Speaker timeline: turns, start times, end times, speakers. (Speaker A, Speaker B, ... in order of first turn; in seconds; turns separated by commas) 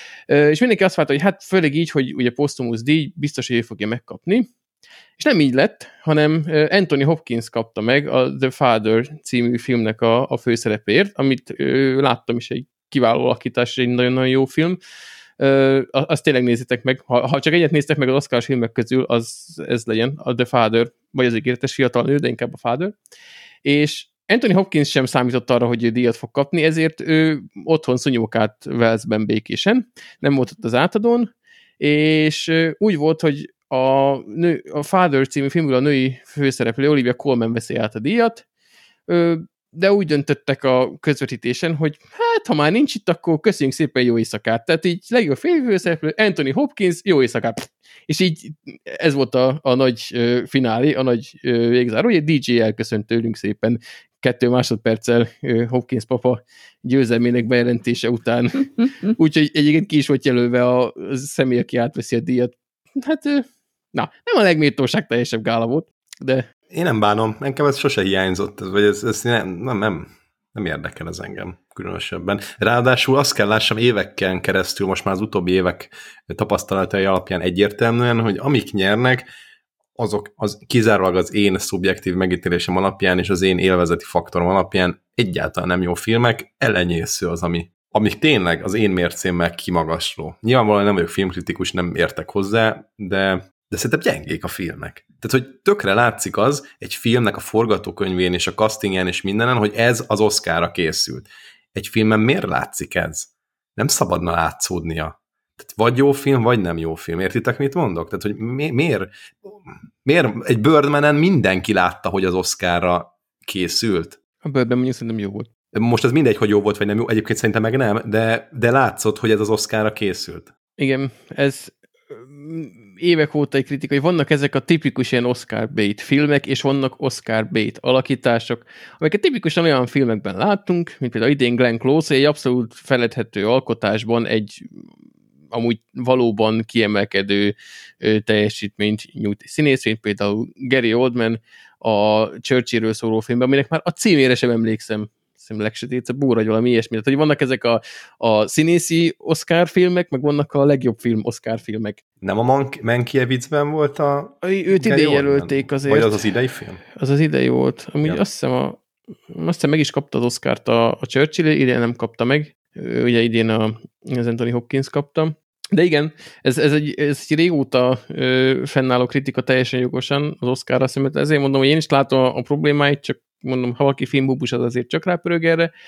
Speaker A: 0.3-4.5, Speaker A: 5.2-14.8, Speaker A: 15.4-22.9, Speaker A: 23.6-31.3, Speaker A: 31.8-38.4, Speaker A: 39.1-66.4, Speaker B: 66.7-79.2, Speaker B: 80.0-114.2, Speaker A: 114.4-115.5, Speaker B: 115.7-120.5, Speaker A: 120.8-134.8, Speaker A: 135.5-152.0, Speaker B: 152.2-156.8, Speaker A: 154.4-156.2, Speaker A: 156.9-175.7